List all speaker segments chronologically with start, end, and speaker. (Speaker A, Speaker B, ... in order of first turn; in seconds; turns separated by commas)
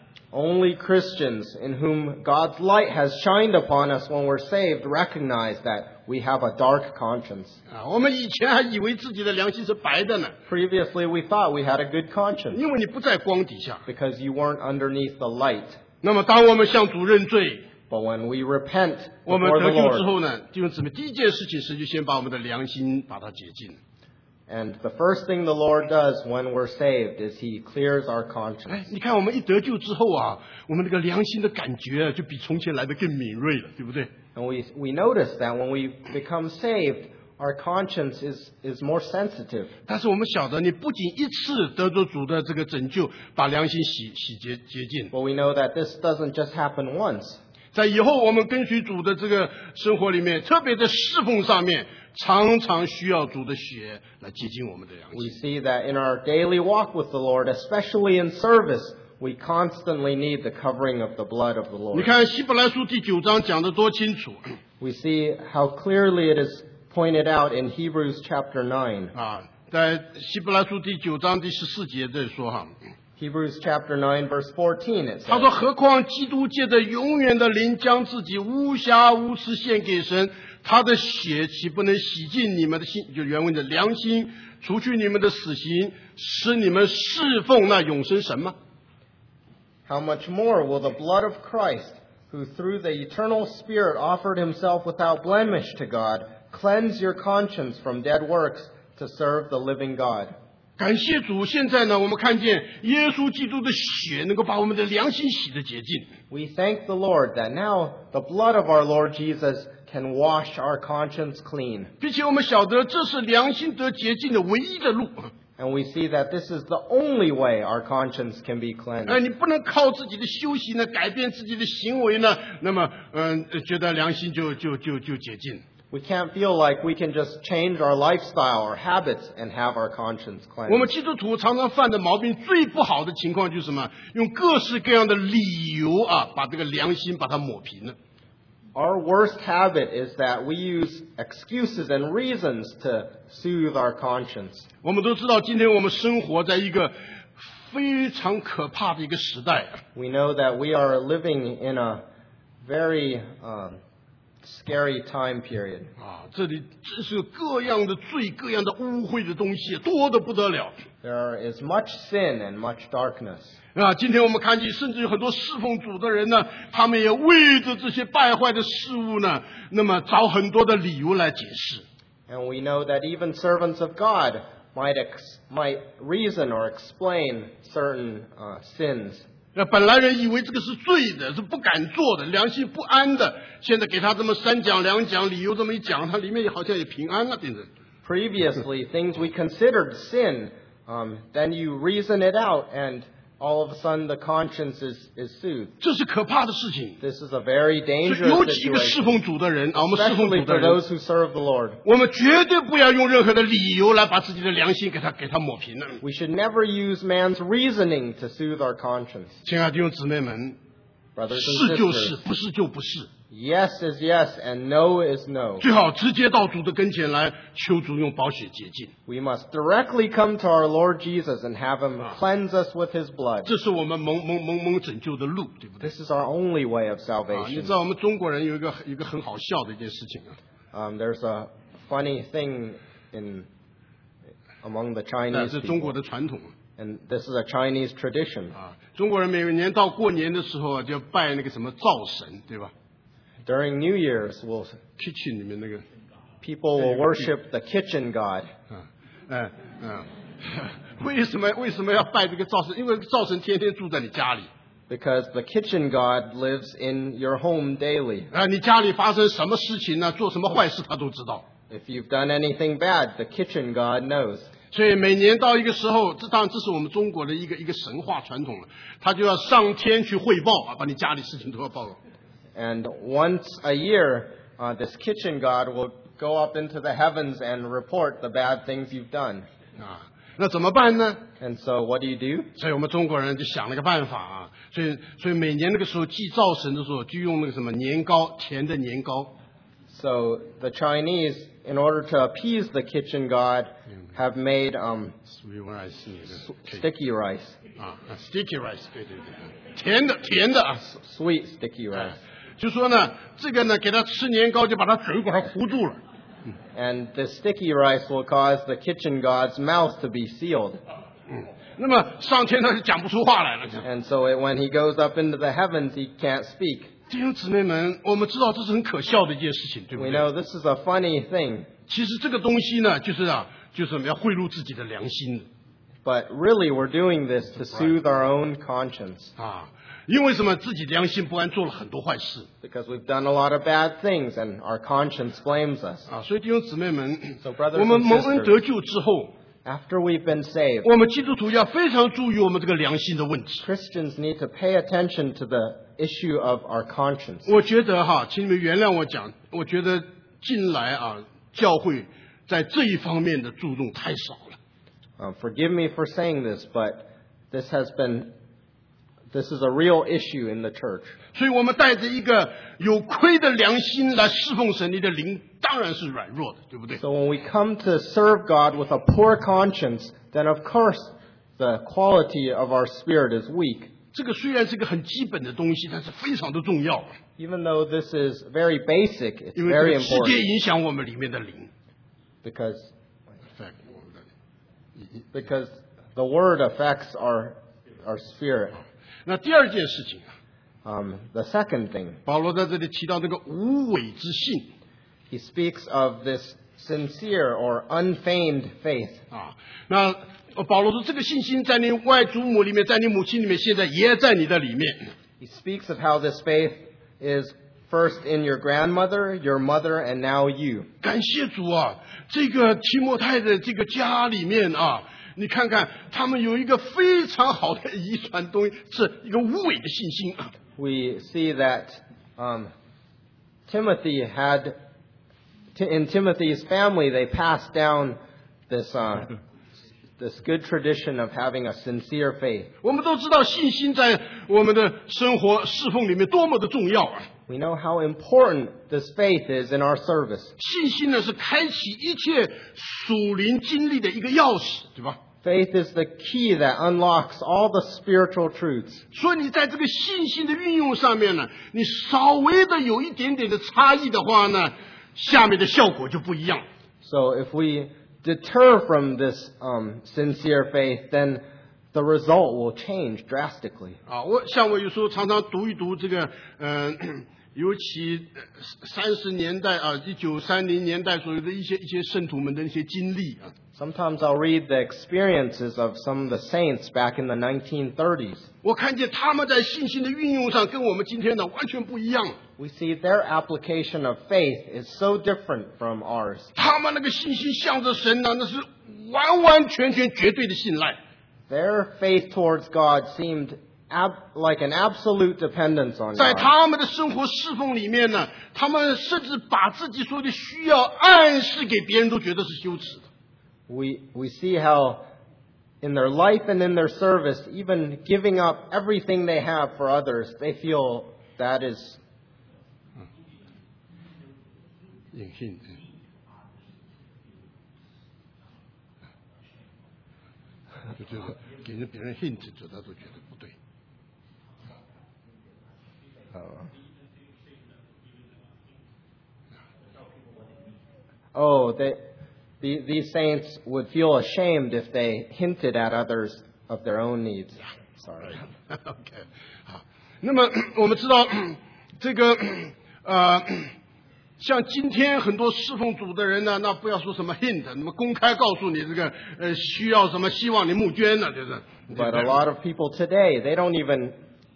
Speaker A: 0.3-7.6, Speaker B: 7.7-10.4, Speaker A: 10.5-12.6, Speaker B: 12.5-13.8, Speaker A: 13.9-15.8, Speaker B: 16.0-17.7, Speaker A: 17.9-20.1, Speaker B: 19.3-23.8, Speaker A: 24.5-28.9, Speaker B: 28.7-34.1, Speaker A: 34.4-39.7, Speaker B: 39.9-45.1, Speaker A: 45.1-47.4, Speaker B: 47.7-55.3, Speaker A: 55.1-62.1, Speaker B: 61.9-64.6, Speaker A: 64.8-69.1, Speaker B: 69.1-72.8, Speaker A: 73.2-75.5, Speaker B: 75.3-88.6, Speaker A: 89.9-100.3, Speaker B: 100.8-106.1, Speaker A: 106.3-111.9, Speaker B: 112.0-115.3, Speaker A: 115.6-119.2, Speaker B: 119.1-125.6, Speaker A: 125.9-130.9, Speaker B: 130.7-138.0, Speaker A: 138.8-144.7, Speaker B: 144.8-149.8, Speaker A: 149.9-152.0, Speaker A: 152.6-153.8, Speaker A: 154.4-155.9, Speaker B: 156.0-160.8, Speaker A: 161.0-163.6, Speaker B: 163.8-171.8, Speaker A: 172.3-179.2, Speaker B: 179.6-187.7, Speaker A: 188.1-195.7, Speaker B: 195.8-197.0, Speaker A: 197.0-199.2, Speaker B: 198.1-200.8, Speaker A: 199.8-201.8, Speaker B: 201.8-206.0, Speaker A: 206.0-209.4, Speaker B: 209.4-210.6, Speaker A: 211.2-212.2, Speaker B: 211.3-213.1, Speaker A: 213.3-215.7, Speaker B: 215.6-218.9, Speaker A: 219.1-223.5, Speaker B: 223.4-225.9, Speaker A: 225.8-227.7, Speaker B: 227.3-230.4, Speaker A: 230.7-233.5, Speaker A: 234.6-235.9, Speaker B: 235.3-236.5, Speaker A: 236.8-238.6, Speaker B: 238.6-242.7, Speaker A: 243.5-244.8, Speaker B: 245.0-245.8, Speaker A: 246.4-248.5, Speaker B: 246.8-247.2, Speaker B: 248.7-254.5, Speaker A: 254.9-258.3, Speaker B: 258.3-261.5, Speaker A: 261.7-264.5, Speaker B: 264.7-272.0, Speaker A: 272.6-279.5, Speaker B: 279.8-281.2, Speaker A: 281.4-282.5, Speaker B: 282.6-289.4, Speaker A: 289.9-295.2, Speaker B: 295.3-296.8, Speaker A: 296.4-297.6, Speaker B: 297.8-300.9, Speaker A: 300.8-302.2, Speaker B: 302.6-306.0, Speaker A: 306.8-310.8, Speaker B: 311.3-313.9, Speaker A: 313.8-316.9, Speaker B: 317.1-320.3, Speaker A: 319.9-321.7, Speaker B: 321.9-325.5, Speaker A: 326.1-329.3, Speaker B: 327.7-328.0, Speaker B: 329.4-332.5, Speaker A: 332.6-336.1, Speaker B: 336.1-339.3, Speaker A: 337.4-338.6, Speaker A: 339.6-340.9, Speaker B: 340.8-343.6, Speaker A: 343.6-347.5, Speaker B: 347.5-354.6, Speaker A: 355.2-358.3, Speaker A: 359.3-361.1, Speaker B: 361.3-367.0, Speaker A: 367.0-373.9, Speaker B: 374.1-377.2, Speaker A: 377.4-380.4, Speaker B: 379.6-381.7, Speaker A: 382.4-382.9, Speaker B: 383.5-384.2, Speaker A: 385.3-388.8, Speaker B: 389.2-390.3, Speaker A: 390.9-392.2, Speaker B: 392.3-394.7, Speaker A: 395.3-399.2, Speaker B: 399.3-405.1, Speaker A: 405.4-410.9, Speaker B: 411.0-420.5, Speaker A: 420.8-422.7, Speaker A: 423.7-424.8, Speaker A: 425.8-428.2, Speaker A: 428.7-429.4, Speaker A: 430.2-432.7, Speaker B: 432.8-437.3, Speaker A: 437.5-440.6, Speaker B: 440.6-445.2, Speaker A: 445.4-449.0, Speaker B: 449.1-456.7, Speaker A: 457.0-464.0, Speaker B: 464.1-473.5, Speaker A: 473.8-478.5, Speaker B: 478.6-482.4, Speaker A: 482.6-486.5, Speaker B: 486.6-491.0, Speaker A: 491.5-496.5, Speaker B: 496.1-503.1, Speaker A: 503.7-505.1, Speaker A: 505.8-512.0, Speaker B: 515.1-515.8, Speaker B: 521.0-523.5, Speaker A: 526.4-526.6, Speaker A: 531.3-532.0, Speaker A: 532.6-538.4, Speaker B: 538.7-543.7, Speaker B: 544.4-552.4, Speaker A: 551.9-554.2